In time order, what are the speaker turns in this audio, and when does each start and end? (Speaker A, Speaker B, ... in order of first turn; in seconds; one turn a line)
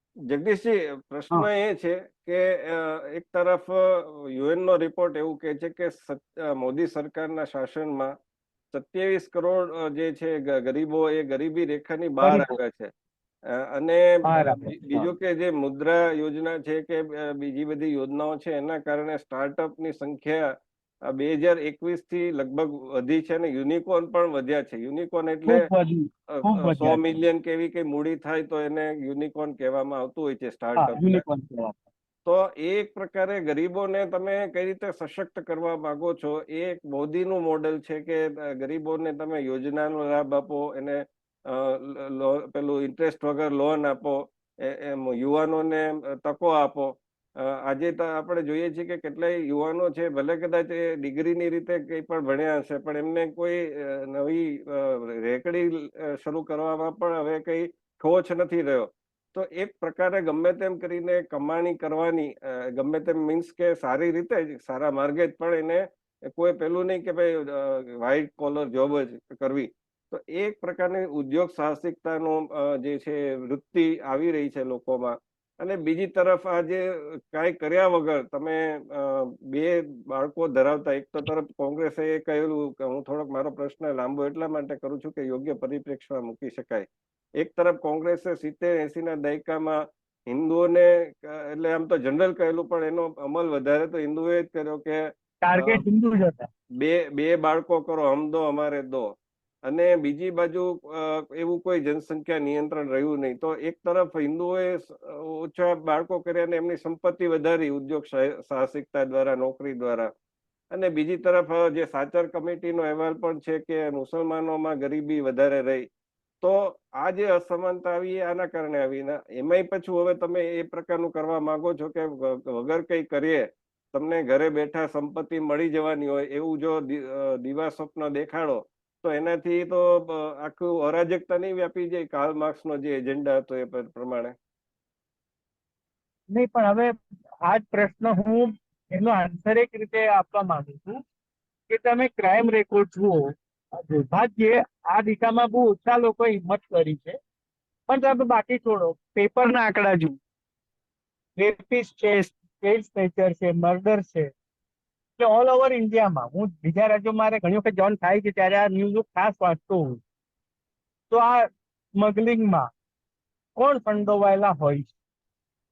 Speaker A: 0.3-8.1
Speaker A: 8.7-12.9
Speaker B: 12.2-12.6
Speaker A: 13.5-20.5
Speaker B: 14.2-15.1
Speaker A: 21.1-25.7
Speaker B: 25.5-27.0
Speaker A: 26.3-31.2
Speaker B: 30.8-31.8
Speaker A: 32.2-86.9
Speaker A: 87.4-95.8
Speaker B: 95.4-96.5
Speaker A: 96.8-99.1
Speaker A: 99.7-110.1
Speaker A: 110.7-115.9
Speaker A: 116.4-134.3
Speaker B: 136.3-141.0
Speaker B: 141.7-147.2
Speaker B: 147.9-150.2
Speaker B: 151.4-154.3
Speaker B: 155.2-160.0
Speaker B: 161.1-162.7
Speaker B: 163.6-164.9